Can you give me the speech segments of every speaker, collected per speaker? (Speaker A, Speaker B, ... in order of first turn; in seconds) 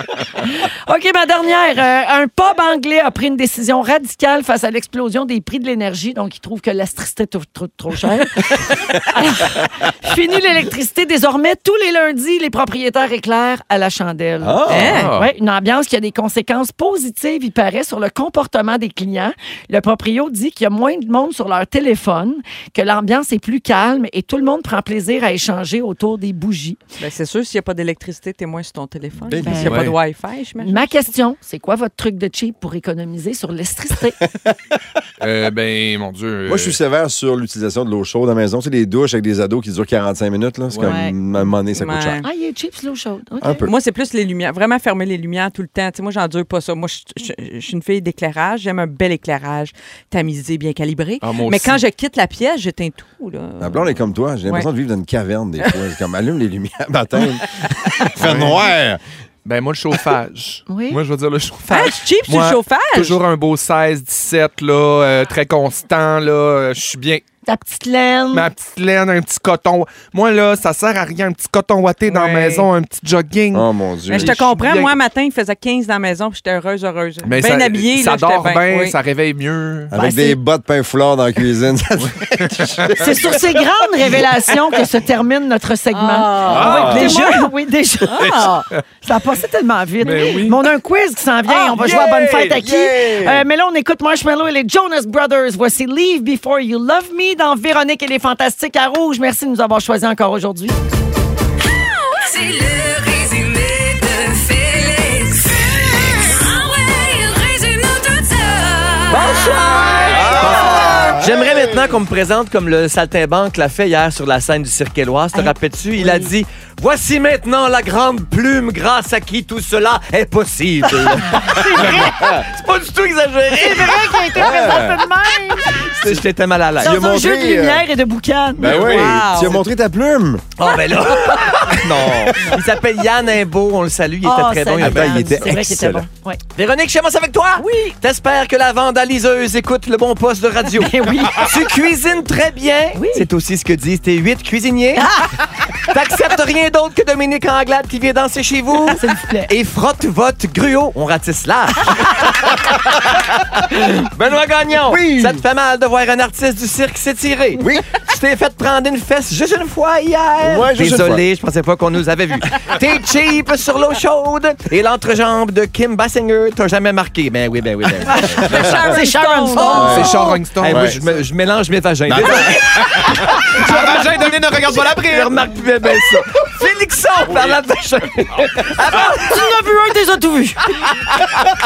Speaker A: 0.4-26.8, 29.4-29.8, 30.6-34.2, 40.8-41.2, 42.2-43.7, 60.7-61.0, 67.5-68.5, 80.0-80.4, 83.0-100.8, 115.3-116.3, 121.3-122.2, 123.5-125.8, 126.8-128.9, 134.2-136.4, 137.6-137.9, 140.7-141.5, 142.9-143.3, 145.0-145.2, 148.9-149.5, 168.1-170.1, 179.0-180.6
Speaker B: 14.4-15.1, 29.2-29.9, 36.5-42.2, 43.4-43.7, 53.6-59.0, 73.5-74.4, 79.9-83.1, 86.5-87.2, 91.8-93.5, 110.1-112.0, 120.8-122.5, 124.3-125.1, 126.8-127.8, 128.6-130.5, 131.8-132.6, 134.8-136.1, 154.9-155.4, 157.6-157.8, 160.4-161.2, 169.8-171.0, 172.1-173.0
Speaker C: 14.7-15.1, 27.0-30.9, 41.7-42.3, 43.6-54.7, 61.7-63.2, 72.1-72.7, 74.1-79.0, 85.9-88.7, 129.0-129.6, 168.1-170.4
Speaker D: 14.8-15.3, 29.6-29.9, 35.2-36.8, 40.7-41.0, 51.2-51.8, 58.2-58.7, 59.5-67.2, 68.3-75.0, 77.2-79.9, 82.4-83.1, 86.5-87.1, 88.2-88.5, 90.0-90.7, 91.5-92.6, 128.6-129.1, 169.8-171.3, 173.7-175.2
Speaker E: 101.8-110.0
Speaker F: 109.1-124.3, 126.0-127.0, 130.6-135.4, 136.6-145.1, 145.8-152.8, 153.6-168.8, 169.6-179.3, 180.9-181.4